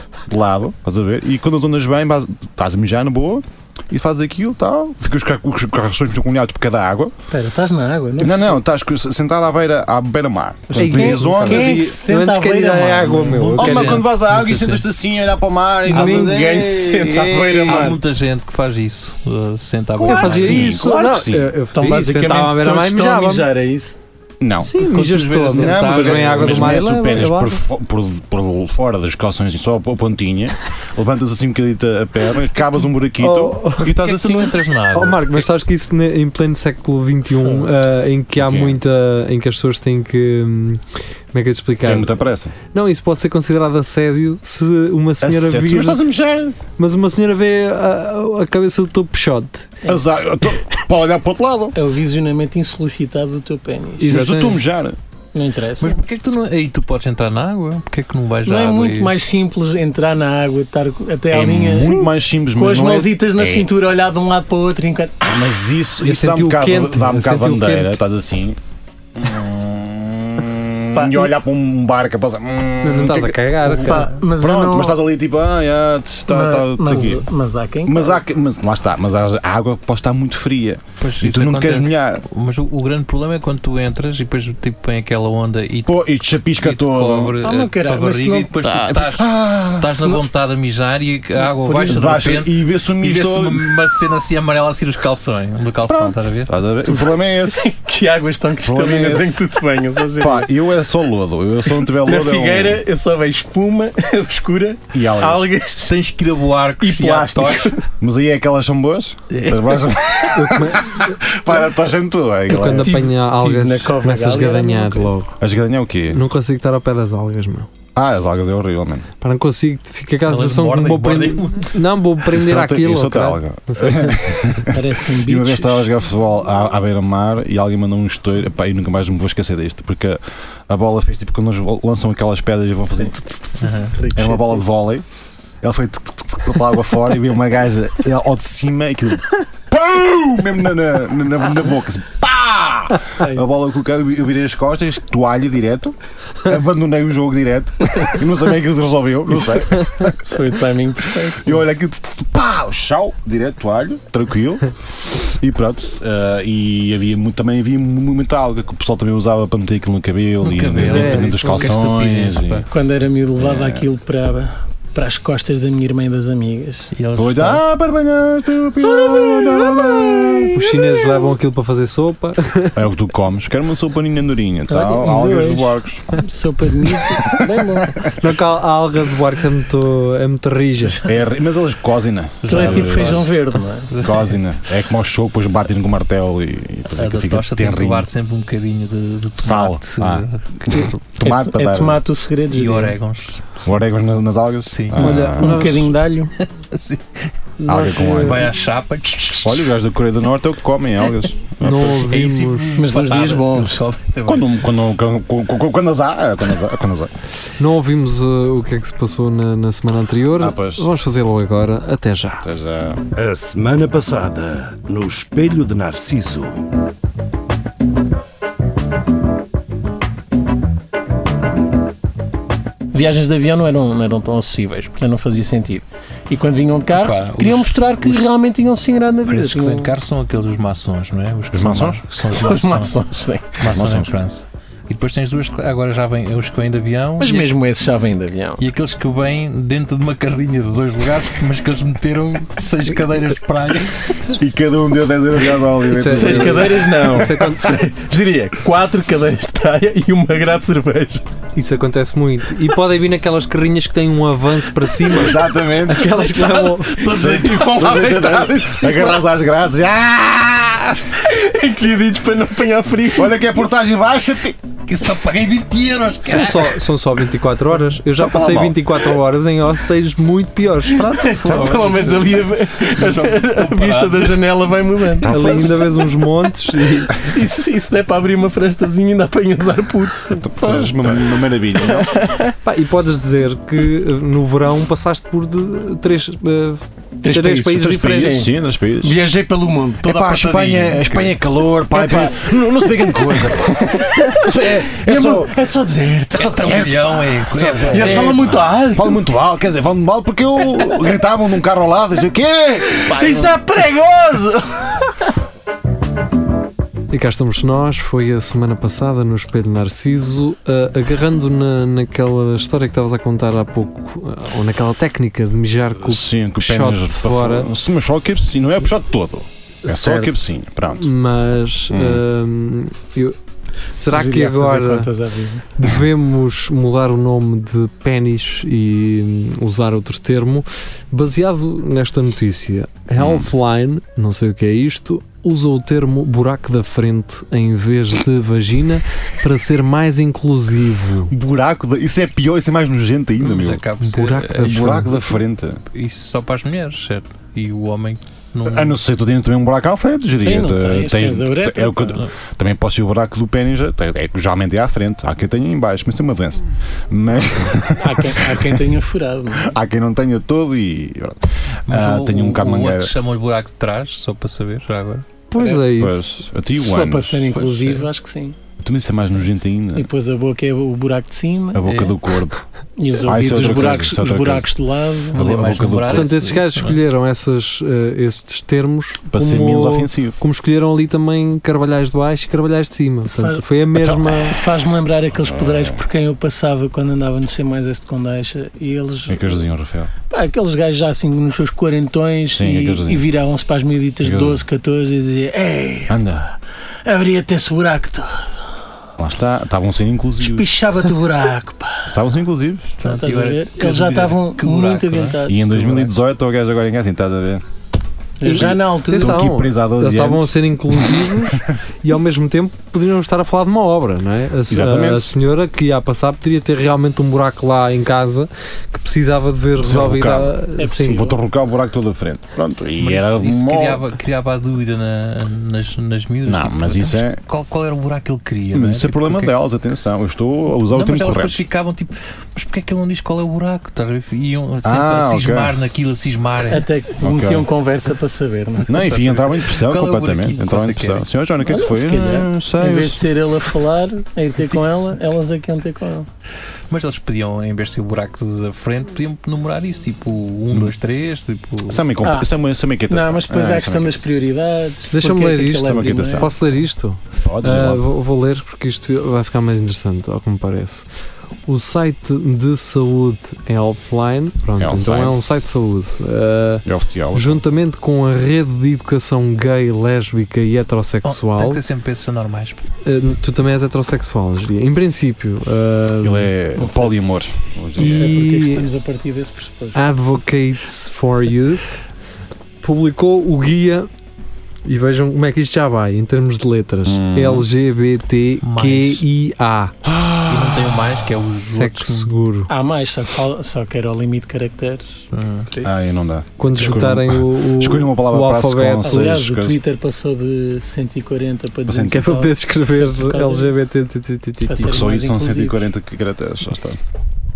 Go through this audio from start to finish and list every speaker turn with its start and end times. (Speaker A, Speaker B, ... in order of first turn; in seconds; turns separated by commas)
Speaker A: 0.3-7.1, Speaker B: 7.3-8.6, Speaker A: 8.2-12.0, Speaker B: 10.7-13.6, Speaker C: 10.7-14.0, Speaker D: 13.4-14.8, Speaker A: 13.6-18.0, Speaker B: 15.9-18.0, Speaker C: 16.0-16.2, Speaker D: 17.6-20.7, Speaker A: 20.0-21.5, Speaker C: 20.1-23.5, Speaker B: 21.7-24.0, Speaker A: 24.4-24.9, Speaker C: 24.6-27.6, Speaker D: 24.8-27.2, Speaker A: 25.5-34.6, Speaker C: 33.2-33.9, Speaker D: 33.8-35.4, Speaker C: 34.9-40.8, Speaker B: 37.4-37.7, Speaker A: 38.4-38.8, Speaker C: 41.3-42.2, Speaker A: 41.8-42.5, Speaker C: 42.7-46.0, Speaker A: 45.2-46.6, Speaker C: 46.8-49.8, Speaker A: 49.9-51.8, Speaker B: 51.7-54.2, Speaker C: 54.0-54.6, Speaker A: 54.1-55.0, Speaker B: 55.3-56.0, Speaker D: 55.8-59.1, Speaker B: 58.5-65.3, Speaker A: 61.3-63.7, Speaker A: 65.2-68.6, Speaker C: 66.0-68.0, Speaker A: 69.2-77.3, Speaker B: 70.9-71.3, Speaker C: 72.8-74.1, Speaker B: 73.7-75.0, Speaker B: 76.3-78.2, Speaker A: 77.9-82.2, Speaker D: 81.0-96.5, Speaker A: 85.9-87.4, Speaker B: 87.4-88.6, Speaker A: 88.6-90.0, Speaker B: 89.9-90.2, Speaker B: 91.4-92.3, Speaker A: 91.8-93.7, Speaker A: 95.9-97.7, Speaker B: 96.9-100.5, Speaker A: 98.6-99.4, Speaker A: 100.2-102.8, Speaker B: 101.8-106.0, Speaker A: 104.9-105.5, Speaker D: 105.8-107.7, Speaker B: 106.8-107.8, Speaker A: 108.0-113.0, Speaker D: 109.3-109.8, Speaker C: 110.3-111.1, Speaker C: 112.5-115.3, Speaker B: 112.7-115.2, Speaker A: 115.4-116.2, Speaker C: 116.1-117.7, Speaker A: 118.0-119.1, Speaker C: 119.2-124.2, Speaker D: 120.3-121.8, Speaker A: 122.3-135.1, Speaker B: 124.7-125.9, Speaker D: 133.6-134.0, Speaker B: 134.0-134.6, Speaker A: 135.6-150.2, Speaker B: 149.4-151.6, Speaker A: 151.4-162.7, Speaker D: 160.4-162.7, Speaker C: 160.8-161.6, Speaker B: 162.7-166.9, Speaker A: 163.4-163.9, Speaker D: 166.9-167.6, Speaker A: 167.1-170.9, Speaker C: 170.5-172.8, Speaker A: 172.8-176.1, Speaker B: 174.7-178.0, Speaker A: 177.1-178.1, Speaker C: 178.1-181.0, Speaker A: 181.0-183.3, Speaker D: 182.4-183.3, Speaker B: 182.5-183.9, Speaker D: 183.9-184.3, Speaker A: 184.0-188.1, Speaker D: 187.0-190.9, Speaker A: 189.4-192.0, Speaker B: 191.2-192.9, Speaker D: 192.5-193.7, Speaker A: 193.6-195.6, Speaker D: 194.7-195.7, Speaker B: 195.0-196.3, Speaker C: 195.0-195.9, Speaker D: 196.4-197.3, Speaker C: 197.6-198.3, Speaker A: 197.6-198.5, Speaker D: 198.0-199.7, Speaker A: 199.3-202.1, Speaker C: 201.6-202.8, Speaker D: 201.9-204.5, Speaker B: 202.8-203.8, Speaker A: 204.2-207.1, Speaker C: 207.6-212.5, Speaker A: 210.4-210.9, Speaker A: 212.4-213.0, Speaker E: 213.2-216.6, Speaker B: 222.9-229.9, Speaker D: 226.9-228.2, Speaker D: 229.3-232.9, Speaker A: 231.5-232.0, Speaker B: 232.3-233.6, Speaker D: 233.6-237.5, Speaker A: 233.7-234.1, Speaker B: 237.2-238.6, Speaker D: 238.6-244.2, Speaker A: 244.3-247.3, Speaker C: 245.9-247.7, Speaker B: 246.1-251.2, Speaker C: 251.6-257.1, Speaker A: 255.1-261.1, Speaker B: 256.9-259.2, Speaker D: 257.1-257.8, Speaker B: 261.1-263.4, Speaker A: 263.1-264.6, Speaker D: 264.9-266.8, Speaker C: 266.2-271.3, Speaker A: 268.1-269.1, Speaker B: 270.9-276.1, Speaker D: 271.4-274.5, Speaker A: 275.1-275.8, Speaker C: 275.3-277.2, Speaker B: 277.1-282.5, Speaker A: 280.4-282.2, Speaker C: 282.6-288.4, Speaker B: 287.2-290.8, Speaker A: 287.7-289.2, Speaker A: 290.0-295.6, Speaker D: 290.1-291.3, Speaker B: 291.9-296.8, Speaker D: 296.4-298.4, Speaker A: 296.4-303.6, Speaker B: 297.9-299.3, Speaker B: 302.9-305.3, Speaker C: 307.1-317.7, Speaker A: 316.0-321.1, Speaker C: 319.9-320.4, Speaker C: 320.9-323.4, Speaker A: 321.9-322.2, Speaker C: 323.9-325.1, Speaker B: 324.1-325.6, Speaker C: 325.7-341.3, Speaker A: 333.2-333.5, Speaker A: 341.3-343.9, Speaker D: 343.4-345.2, Speaker C: 344.0-345.2, Speaker A: 344.6-345.8, Speaker D: 345.9-349.0, Speaker A: 348.6-358.8, Speaker B: 350.4-352.2, Speaker B: 358.0-359.7, Speaker A: 359.6-363.1, Speaker D: 361.9-365.3, Speaker C: 365.5-366.4, Speaker B: 365.6-365.8, Speaker A: 365.8-367.9, Speaker B: 366.7-368.6, Speaker A: 368.8-370.1, Speaker B: 369.9-371.8, Speaker A: 371.7-372.6, Speaker D: 371.9-372.1, Speaker B: 373.0-375.4, Speaker A: 373.2-374.7, Speaker A: 375.3-376.3, Speaker D: 375.3-377.0, Speaker C: 376.1-384.6, Speaker A: 379.3-380.4, Speaker B: 383.3-383.6, Speaker A: 383.9-384.6, Speaker B: 384.4-389.7, Speaker A: 385.3-386.0, Speaker A: 389.3-390.1, Speaker B: 390.3-396.2, Speaker A: 392.5-393.3, Speaker A: 394.2-394.6, Speaker A: 396.1-396.5, Speaker B: 397.1-398.5, Speaker A: 399.2-400.7, Speaker B: 400.4-402.1, Speaker A: 402.1-403.0, Speaker D: 403.0-405.9, Speaker B: 403.0-406.1, Speaker A: 405.5-407.6, Speaker B: 408.4-409.5, Speaker A: 408.4-411.6, Speaker C: 408.5-421.3, Speaker A: 414.7-415.4, Speaker A: 419.8-424.1, Speaker B: 420.8-421.4, Speaker D: 423.0-429.6, Speaker A: 426.4-427.4, Speaker A: 428.7-431.6, Speaker D: 430.9-436.9, Speaker A: 434.8-435.7, Speaker B: 436.7-439.3, Speaker A: 437.2-437.7, Speaker A: 438.9-443.3, Speaker D: 439.5-441.3, Speaker B: 441.6-446.3, Speaker D: 446.9-452.0, Speaker A: 451.9-454.2, Speaker B: 452.2-452.5, Speaker B: 453.1-456.5, Speaker C: 455.1-461.1, Speaker A: 455.7-456.5, Speaker A: 457.4-458.1, Speaker C: 461.7-471.8, Speaker A: 464.8-465.4, Speaker A: 466.9-467.6, Speaker D: 471.2-472.8, Speaker C: 473.0-476.5, Speaker A: 476.2-478.4, Speaker B: 476.8-477.1, Speaker B: 477.9-480.0, Speaker C: 478.0-478.9, Speaker C: 479.9-481.9, Speaker C: 482.8-484.1, Speaker C: 484.9-489.9, Speaker A: 487.1-487.7, Speaker D: 488.6-489.2, Speaker A: 490.1-491.1, Speaker D: 490.4-492.3, Speaker C: 491.5-492.7, Speaker B: 492.7-495.9, Speaker D: 495.3-495.7, Speaker A: 495.8-499.8, Speaker C: 496.6-499.4, Speaker B: 499.0-503.9, Speaker A: 501.9-502.3, Speaker C: 502.1-505.1, Speaker B: 504.6-505.9, Speaker A: 504.8-507.0